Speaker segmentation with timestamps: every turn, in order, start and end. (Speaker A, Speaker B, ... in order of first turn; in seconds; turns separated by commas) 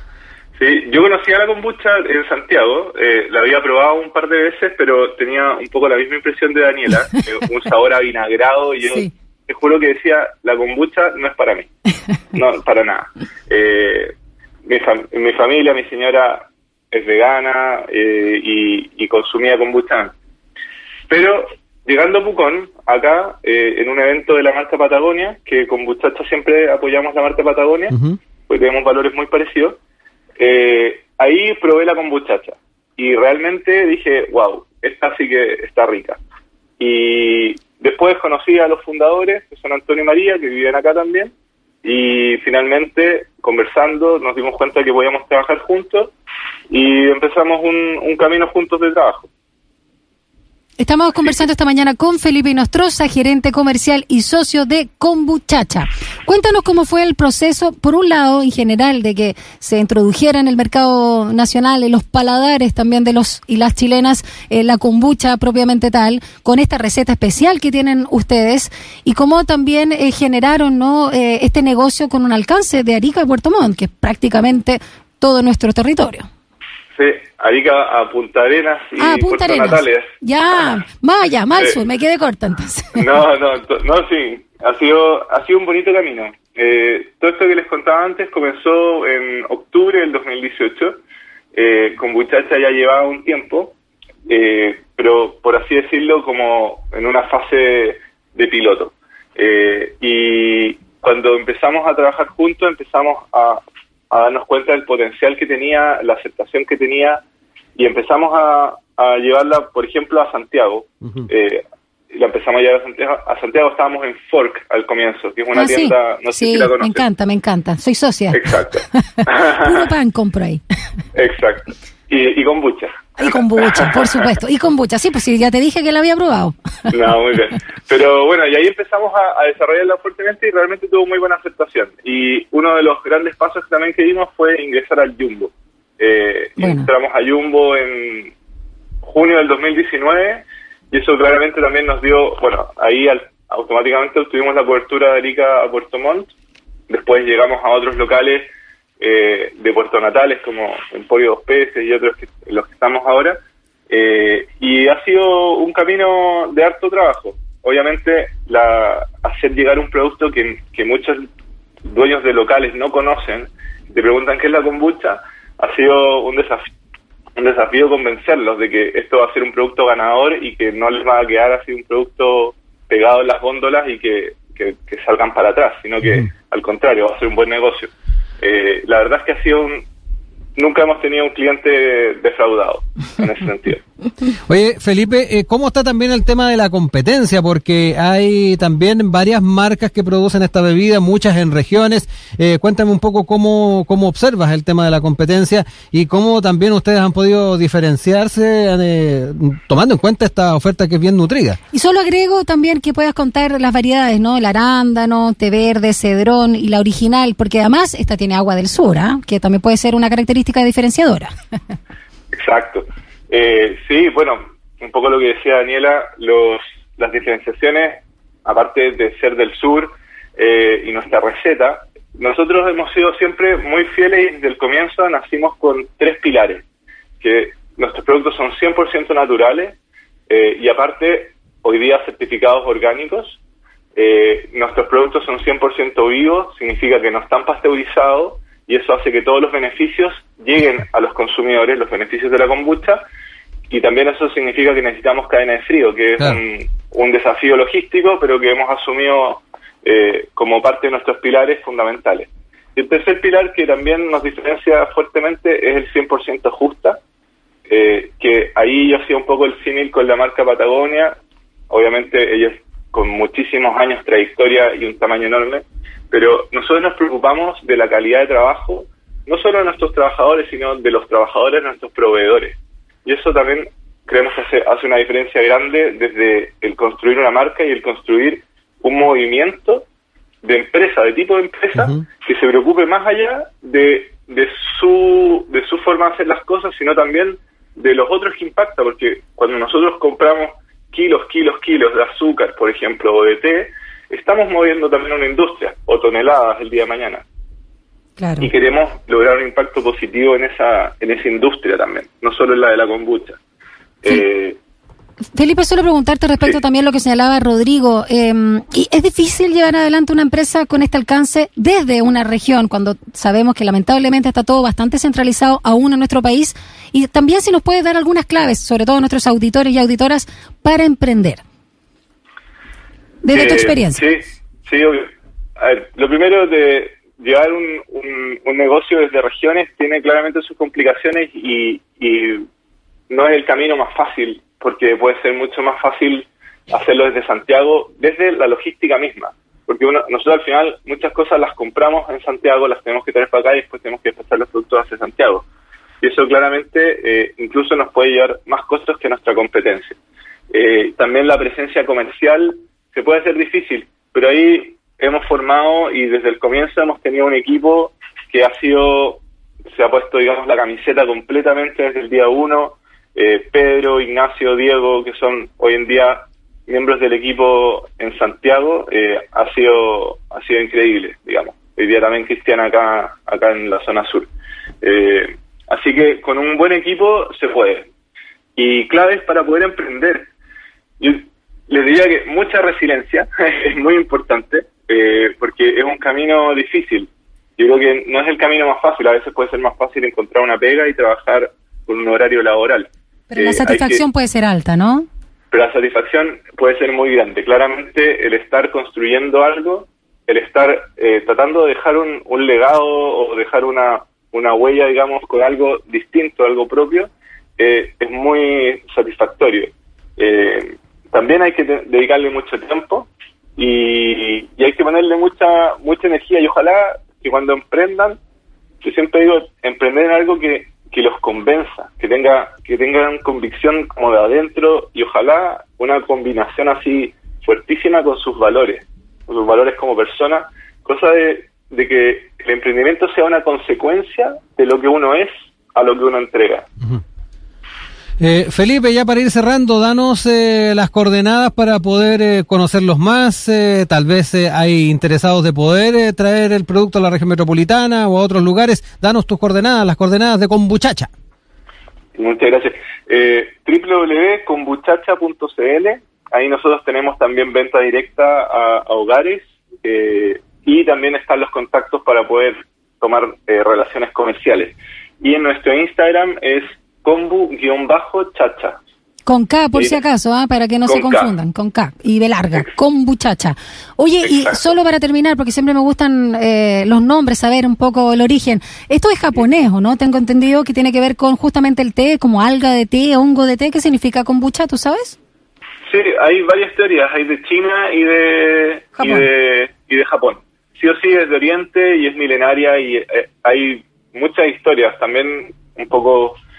Speaker A: 0.6-11.7, Speaker B: 8.8-9.1, Speaker A: 12.3-14.1, Speaker A: 14.7-20.1, Speaker A: 21.1-29.8, Speaker A: 30.4-36.2, Speaker A: 36.8-41.3, Speaker A: 41.8-46.1, Speaker A: 46.7-49.3, Speaker B: 50.8-76.3, Speaker A: 77.0-80.7, Speaker B: 79.0-83.0, Speaker A: 82.9-91.0, Speaker A: 91.5-93.8, Speaker A: 94.3-107.2, Speaker A: 107.8-117.0, Speaker B: 115.5-118.4, Speaker A: 118.3-119.7, Speaker B: 118.9-120.6, Speaker A: 121.1-124.2, Speaker B: 123.2-126.5, Speaker A: 126.9-138.3, Speaker B: 136.6-136.9, Speaker A: 139.0-146.3, Speaker A: 146.9-148.5, Speaker A: 149.0-153.4, Speaker A: 153.9-161.3, Speaker A: 161.9-166.7, Speaker A: 167.4-179.8, Speaker A: 180.6-183.8, Speaker C: 184.5-201.6, Speaker B: 201.7-211.3, Speaker A: 212.3-226.6, Speaker A: 227.2-229.8, Speaker A: 230.3-233.4, Speaker A: 233.9-243.0, Speaker A: 243.7-257.0, Speaker A: 257.7-261.1, Speaker A: 261.7-279.8, Speaker A: 280.4-297.2, Speaker B: 298.2-298.5, Speaker A: 298.4-303.4, Speaker A: 304.0-304.6, Speaker B: 305.3-321.4, Speaker B: 323.2-324.0, Speaker A: 323.3-325.0, Speaker A: 325.6-332.4, Speaker A: 333.1-345.4, Speaker A: 346.0-350.0, Speaker A: 350.5-359.2, Speaker A: 359.7-374.3, Speaker A: 374.8-377.9, Speaker A: 378.6-380.3, Speaker A: 381.0-394.0, Speaker B: 393.3-395.1, Speaker A: 395.5-418.2, Speaker A: 418.8-436.7, Speaker C: 438.2-451.1, Speaker A: 452.2-468.8, Speaker B: 469.3-485.2, Speaker A: 469.7-470.0, Speaker A: 470.9-471.3, Speaker A: 474.2-474.6, Speaker A: 485.9-496.4, Speaker B: 489.0-489.3